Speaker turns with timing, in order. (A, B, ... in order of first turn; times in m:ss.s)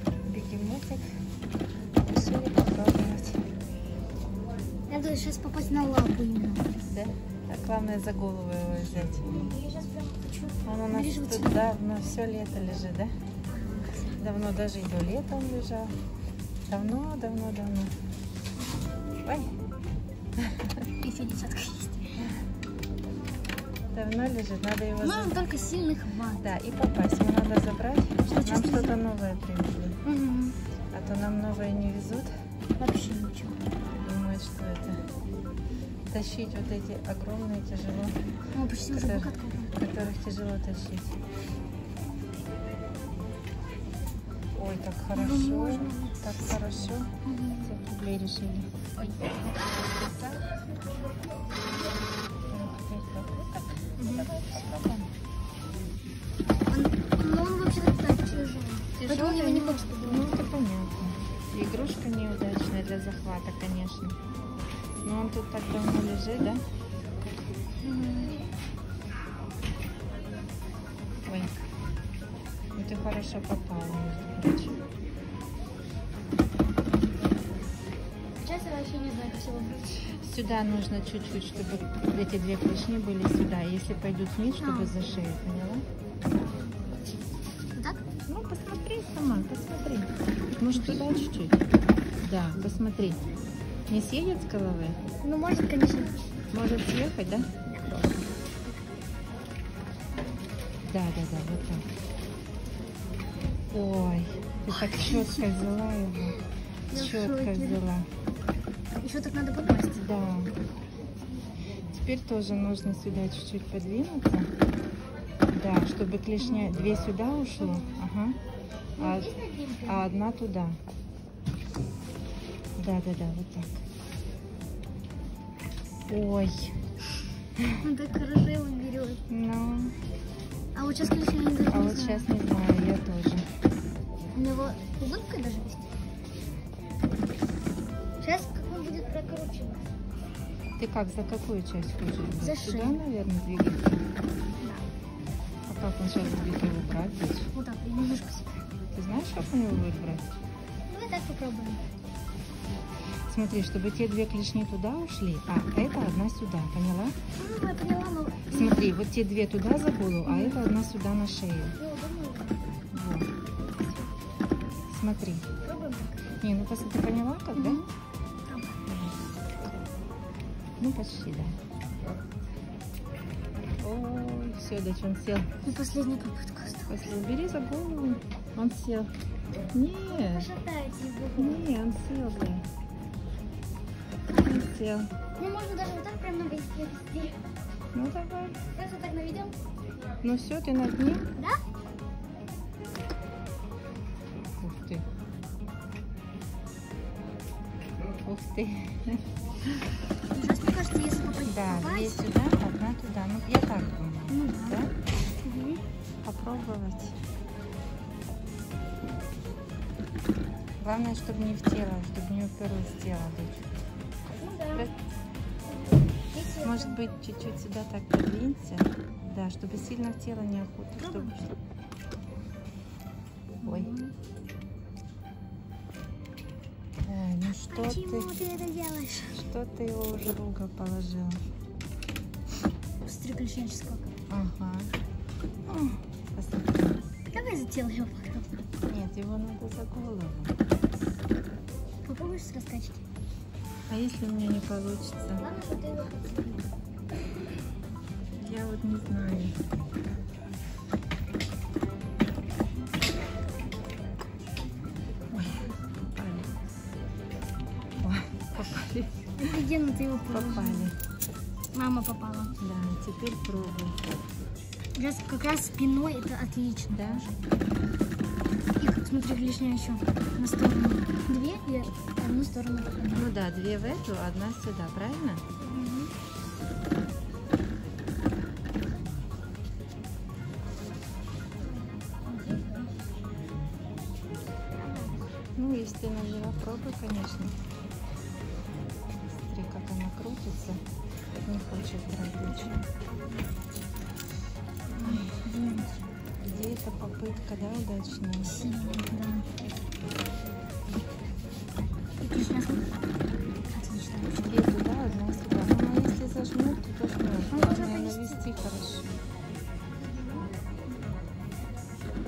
0:00.2-0:01.0 A
0:02.1-0:03.4 A
0:04.9-0:06.7 B
0:06.8-0:09.2 A
0:09.2-0:11.7 B
0:10.6-0:13.1 A
0:13.5-0:14.3 B
0:14.2-0:15.9 A
0:16.6-0:17.9 A
0:19.2-0:19.5 A
0:20.4-0:20.7 A
0:21.0-0:22.2 B
0:23.9-0:25.3 A
0:25.0-0:26.4 B
0:26.4-0:30.0 A
0:28.2-0:29.0 B
0:30.0-0:30.6 B
0:30.9-0:32.3 A
0:32.8-0:33.6 B
0:34.0-0:35.0 A
0:36.1-0:38.2 A
0:38.5-0:39.7 B
0:38.9-0:41.2 A
0:44.5-0:47.1 A
0:45.1-0:46.6 B
0:47.2-0:47.7 B
0:47.6-0:48.7 A
0:49.0-0:49.4 B
0:50.0-0:50.4 A
0:52.5-0:55.1 A
0:54.0-0:54.3 B
0:56.7-1:00.4 B
0:59.0-1:04.2 A
1:05.0-1:06.6 A
1:07.8-1:08.4 B
1:11.2-1:11.5 A
1:12.8-1:14.8 A
1:18.4-1:20.2 B
1:20.2-1:25.8 A
1:24.6-1:24.9 B
1:28.3-1:31.6 A
1:30.7-1:31.3 B
1:32.2-1:33.2 A
1:33.9-1:35.0 A
1:35.2-1:36.2 B
1:36.5-1:38.2 A
1:37.6-1:38.2 B
1:40.9-1:41.8 A
1:43.7-1:46.4 A
1:44.7-1:45.5 B
1:46.3-1:47.8 B
1:46.9-1:48.1 A
1:49.0-1:50.0 B
1:50.0-1:50.5 A
1:51.9-1:54.5 A
1:55.5-1:58.4 A
1:56.4-1:56.7 B
1:57.6-1:58.0 B
1:59.0-1:59.3 A
1:59.0-2:00.1 B
1:59.8-2:00.8 A
2:02.8-2:03.8 A
2:06.1-2:06.8 A
2:07.8-2:09.2 B
2:09.3-2:09.9 A
2:10.7-2:12.3 B
2:11.6-2:13.4 A
2:14.3-2:15.9 B
2:18.2-2:19.9 B
2:20.8-2:24.0 A
2:22.4-2:23.0 B
2:24.6-2:24.8 B
2:25.7-2:27.5 A
2:26.2-2:26.5 B
2:27.5-2:28.6 B
2:28.9-2:30.3 A
2:30.9-2:31.8 B
2:33.3-2:37.1 A
2:37.3-2:38.9 B
2:38.5-2:41.8 A
2:40.2-2:40.7 B
2:41.8-2:42.6 B
2:42.9-2:43.3 A
2:43.8-2:44.1 B
2:44.9-2:45.4 A
2:45.6-2:46.3 B
2:46.4-2:47.8 A
2:47.5-2:47.9 B
2:48.5-2:48.8 B
2:48.9-2:49.2 A
2:50.8-2:51.6 A
2:53.8-2:55.5 A
2:55.6-2:57.0 B
2:56.9-2:59.1 A
2:59.7-3:00.5 A
3:00.1-3:01.7 B
3:01.4-3:02.6 A
3:04.4-3:05.1 A
3:05.4-3:07.4 B
3:07.9-3:08.6 A
3:08.7-3:09.5 B
3:10.2-3:11.3 A
3:11.3-3:11.6 B
3:14.6-3:15.0 A
3:18.2-3:19.2 A
3:20.3-3:22.3 B
3:21.4-3:24.9 A
3:24.3-3:24.8 B
3:25.4-3:25.8 B
3:26.2-3:27.1 A
3:30.8-3:33.7 A
3:34.3-3:34.9 B
3:35.7-3:37.0 B
3:36.6-3:41.6 A
3:41.0-3:41.3 B
3:43.6-3:44.1 B
3:43.6-3:43.9 A
3:47.0-3:48.3 A
3:47.7-3:49.4 B
3:49.3-3:51.4 A
3:53.0-3:54.1 B
3:54.3-3:54.9 A
3:55.6-3:57.0 A
3:57.3-3:58.5 B
3:58.9-4:00.6 A
4:02.0-4:03.0 B
4:03.9-4:05.4 A
4:05.4-4:06.7 B
4:08.4-4:09.6 A
4:15.3-4:16.5 A
4:18.0-4:19.1 A
4:19.4-4:20.9 B
4:20.3-4:21.0 A
4:21.7-4:22.6 B
4:22.6-4:24.0 A
4:25.0-4:27.5 B
4:26.9-4:27.2 A
4:28.8-4:33.3 B
4:33.1-4:35.4 A
4:35.6-4:36.1 B
4:41.6-4:43.0 B
4:44.8-4:45.3 B
4:45.6-4:47.5 A
4:49.5-4:50.8 A
4:51.4-4:52.8 A
4:52.5-4:52.9 B
4:54.9-4:55.8 A
4:55.0-4:55.8 B
4:56.4-4:58.6 A
4:58.4-4:59.5 B
5:02.2-5:02.9 B
5:03.7-5:04.6 B
5:04.4-5:09.2 A
5:07.5-5:08.4 B